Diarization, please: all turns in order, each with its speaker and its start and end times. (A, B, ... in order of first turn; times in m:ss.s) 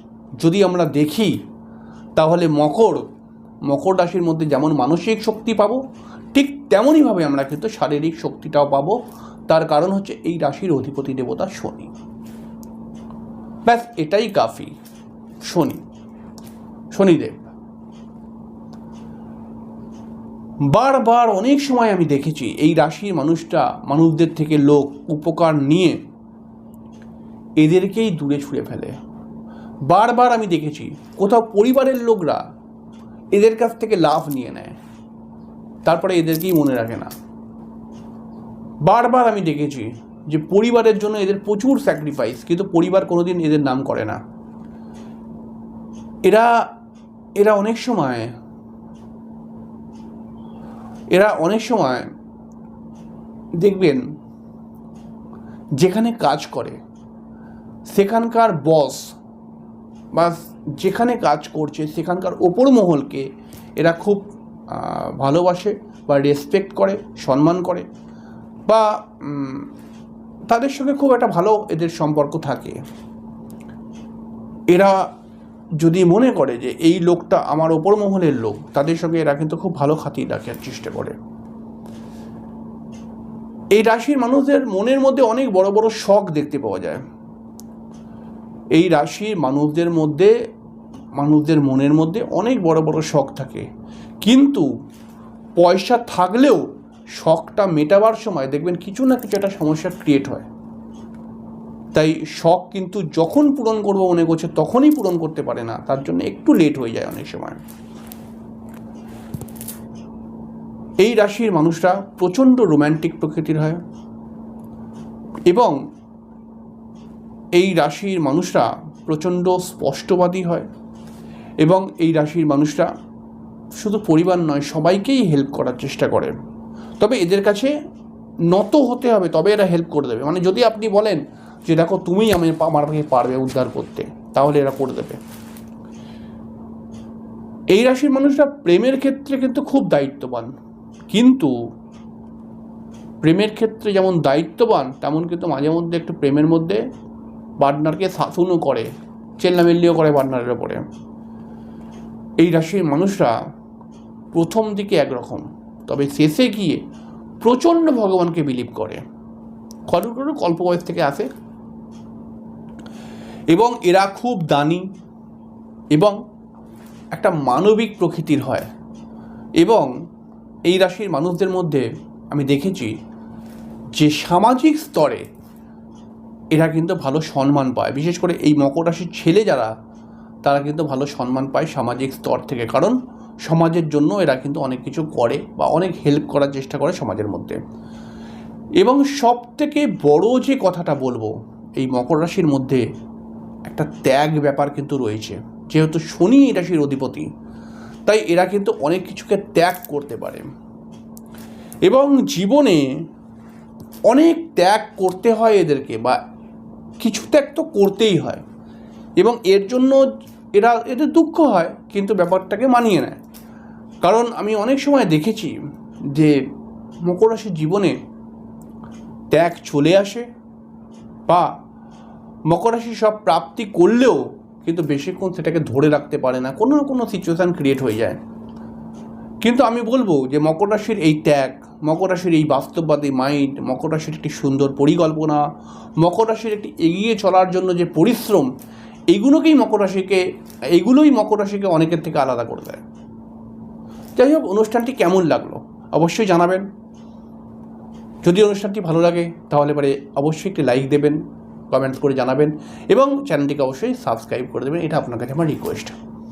0:00.4-0:01.4 A
0:02.2-0:03.0 A
0:03.7-0:05.8 A
0:06.3-0:09.0 A
0:09.5-0:11.9 A
0:13.6-0:14.7 A
0:15.4-0:15.8 A
0:16.9-0:17.5 A
0:20.6-0:26.0 A
0:27.6-0:28.9 A
0:29.9-0:32.4 A
0:33.3-0:34.8 A
0:35.8-0:37.1 A
0:38.8-0:44.2 A
0:46.2-0:46.7 A
0:47.4-0:48.3 A
0:51.1-0:52.1 A
0:53.6-0:54.0 A
0:55.8-0:56.8 A
0:57.9-0:59.1 A
1:00.1-1:03.3 A
1:03.8-1:07.8 A
1:08.7-1:09.7 A
1:10.5-1:12.8 A
1:14.7-1:15.1 A
1:15.8-1:21.2 A
1:23.7-1:27.0 A
1:28.7-1:30.3 A
1:31.1-1:33.6 A
1:34.2-1:34.7 A
1:35.6-1:40.4 A
1:41.9-1:47.6 A
1:51.0-1:53.8 A
1:55.5-1:55.8 A
1:57.6-2:00.7 A
2:01.6-2:02.9 A
2:03.8-2:06.3 A
2:07.0-2:07.7 A
2:08.5-2:15.2 A
2:17.7-2:20.5 A
2:21.1-2:21.5 A
2:23.2-2:26.8 A
2:27.6-2:30.8 A
2:32.4-2:33.3 A
2:34.3-2:36.8 A
2:37.4-2:39.0 A
2:39.9-2:41.3 A
2:43.5-2:44.9 A
2:45.9-2:46.2 A
2:47.1-2:48.7 A
2:49.6-2:49.9 A
2:50.7-2:52.9 A
2:54.0-2:55.2 A
2:56.5-2:59.7 A
3:00.4-3:07.6 A
3:08.8-3:12.8 A
3:13.6-3:17.3 A
3:18.0-3:20.5 A
3:21.8-3:22.9 A
3:24.1-3:26.2 A
3:27.0-3:28.4 A
3:29.2-3:30.0 A
3:30.5-3:33.2 A
3:34.0-3:35.5 A
3:36.1-3:36.4 A
3:37.0-3:38.0 A
3:39.3-3:40.2 A
3:41.3-3:41.5 A
3:42.5-3:48.2 A
3:49.4-3:55.4 A
3:56.0-3:58.5 A
3:59.1-4:02.8 A
4:04.2-4:06.6 A
4:08.2-4:11.2 A
4:11.7-4:15.9 A